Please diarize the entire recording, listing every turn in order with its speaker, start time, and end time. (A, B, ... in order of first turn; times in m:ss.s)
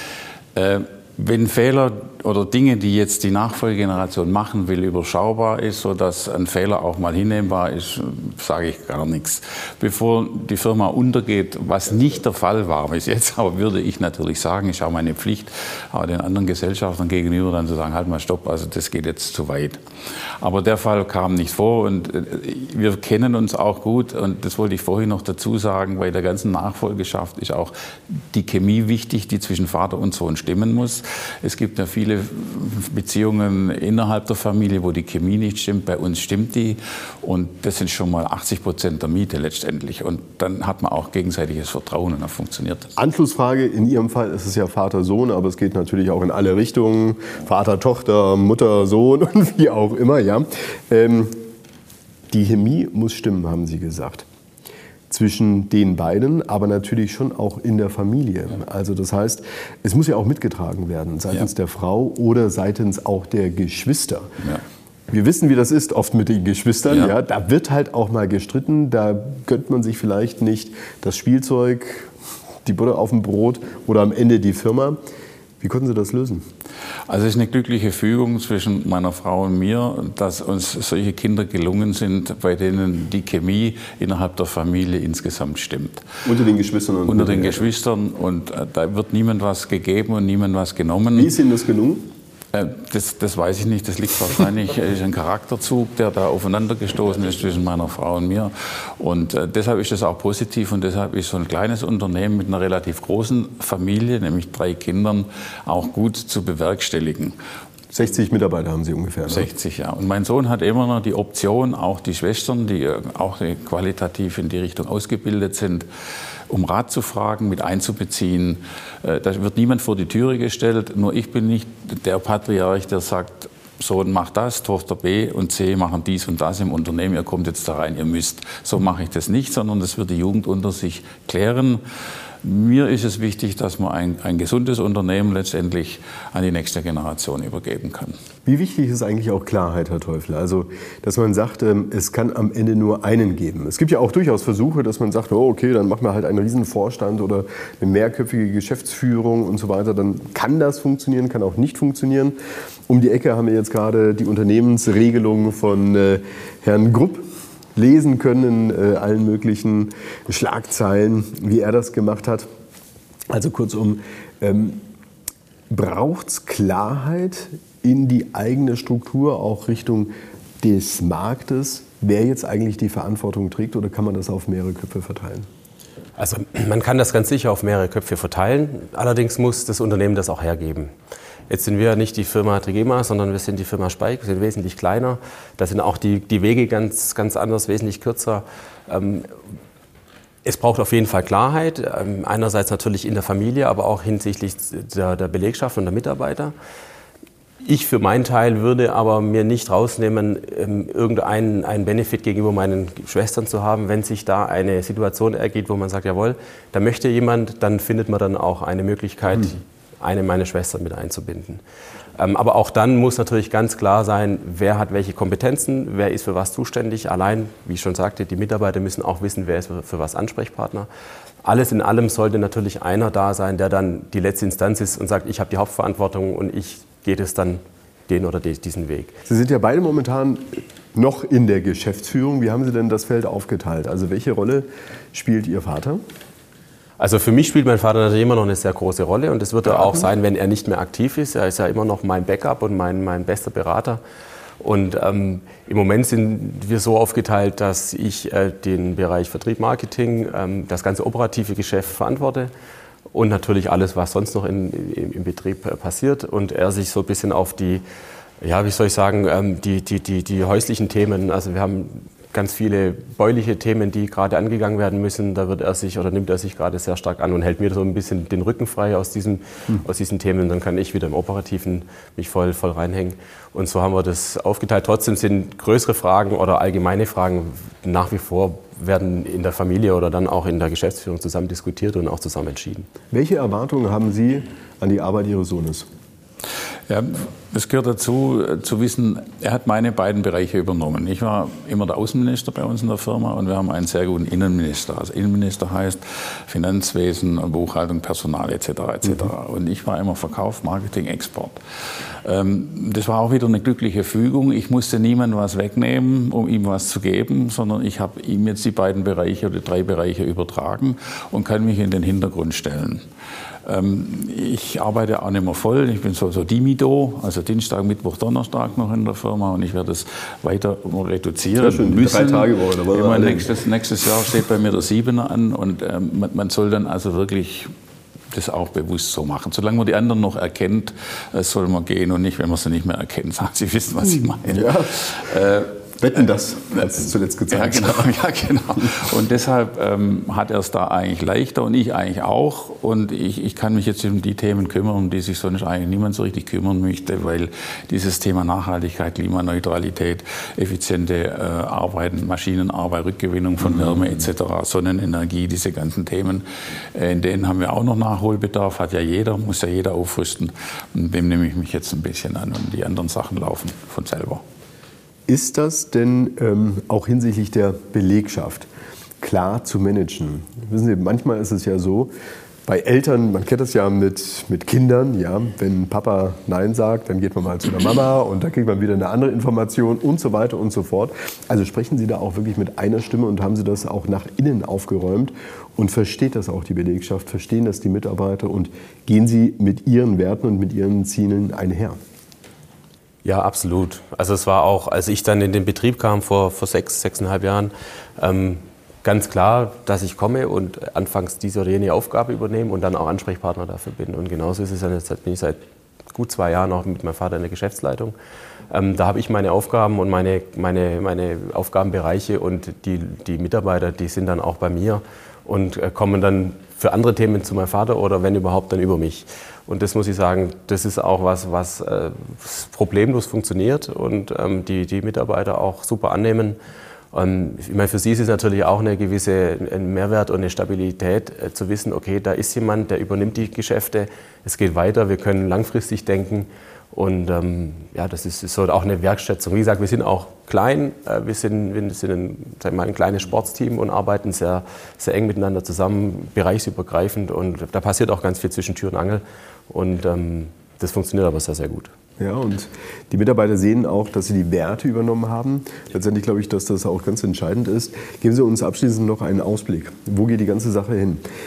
0:00.5-0:19.8 A
0:20.4-0:42.9 A
0:43.0-0:51.4 B
0:52.3-0:54.2 B
0:55.1-1:04.3 B
1:05.1-1:12.1 B
1:12.6-1:15.0 B
1:15.6-1:16.5 B
1:17.1-1:26.1 A
1:26.2-1:27.6 B
1:27.1-1:31.3 A
1:31.1-1:32.1 B
1:32.5-1:47.3 A
1:47.9-1:49.5 B
1:49.3-1:55.9 A
1:56.5-2:11.8 A
2:12.4-2:18.2 A
2:18.4-2:32.4 B
2:32.9-2:42.5 B
2:43.3-2:44.8 B
2:45.7-2:55.5 B
2:56.2-3:00.9 C
3:01.5-3:09.3 C
3:10.4-3:16.5 C
3:17.6-3:31.6 C
3:32.2-3:40.9 C
3:41.4-3:49.2 C
3:49.3-3:56.0 B
3:57.0-4:04.0 C
4:04.6-4:12.5 C
4:13.1-4:17.8 C
4:18.4-4:42.9 C
4:43.1-4:45.9 B
4:46.9-5:13.0 A
5:13.6-5:27.7 A
5:21.6-5:23.5 B
5:28.3-5:35.8 A
5:34.5-5:34.9 B
5:36.0-5:38.2 B
5:37.5-6:04.4 A
6:05.3-6:08.7 B
6:09.2-6:12.1 B
6:12.6-6:32.0 B
6:33.2-6:45.6 C
6:46.1-6:48.1 C
6:48.7-7:06.6 C
7:07.1-7:31.9 C
7:32.2-7:41.2 B